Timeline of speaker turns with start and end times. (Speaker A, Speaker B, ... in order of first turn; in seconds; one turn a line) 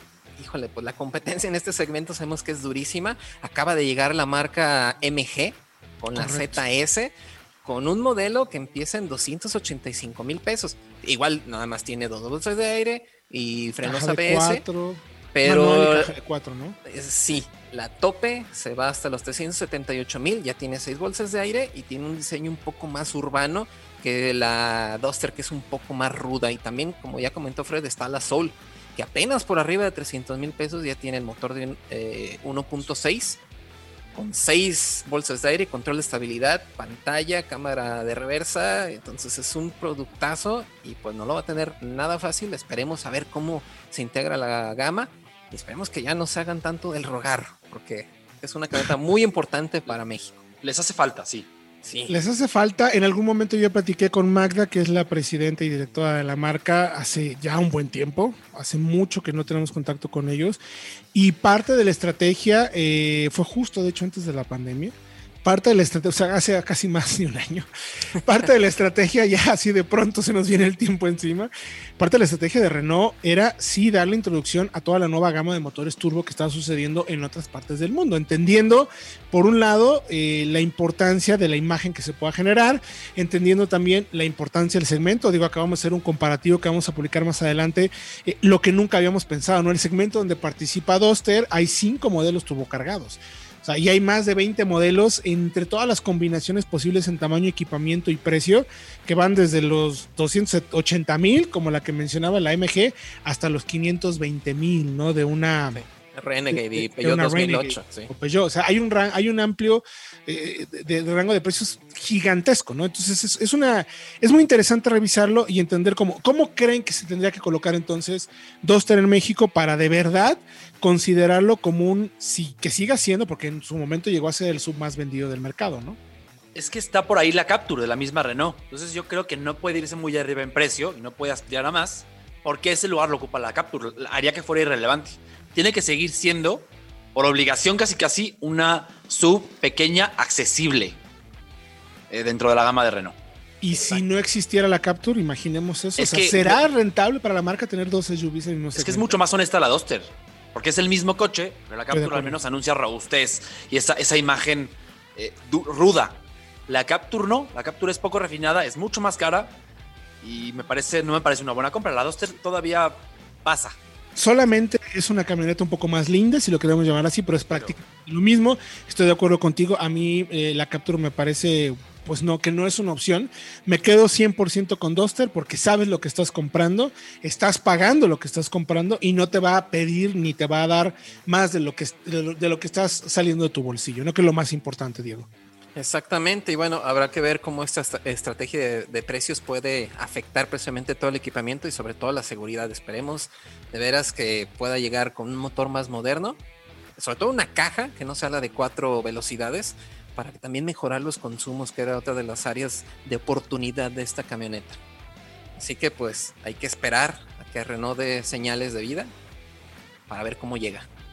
Speaker A: 0.4-14.7
Speaker B: 6.1-6.6
Speaker B: 13.8-16.8
Speaker A: 15.3-16.1
Speaker A: 16.9-33.4
Speaker A: 34.1-50.4
Speaker C: 50.6-51.5
Speaker A: 51.8-52.2
Speaker B: 52.1-60.6
Speaker B: 61.1-67.7
Speaker B: 68.2-105.8
Speaker A: 105.7-108.1
Speaker B: 106.5-126.0
Speaker C: 126.5-141.0
Speaker C: 142.1-143.2
Speaker B: 143.6-149.1
Speaker C: 143.7-144.0
Speaker C: 146.0-146.6
Speaker C: 148.8-159.5
Speaker B: 151.9-152.4
Speaker C: 160.2-163.8
Speaker B: 164.2-185.3
Speaker C: 167.5-167.8
Speaker A: 185.8-196.4
Speaker A: 197.0-204.8
Speaker A: 205.6-209.1
Speaker A: 210.1-210.9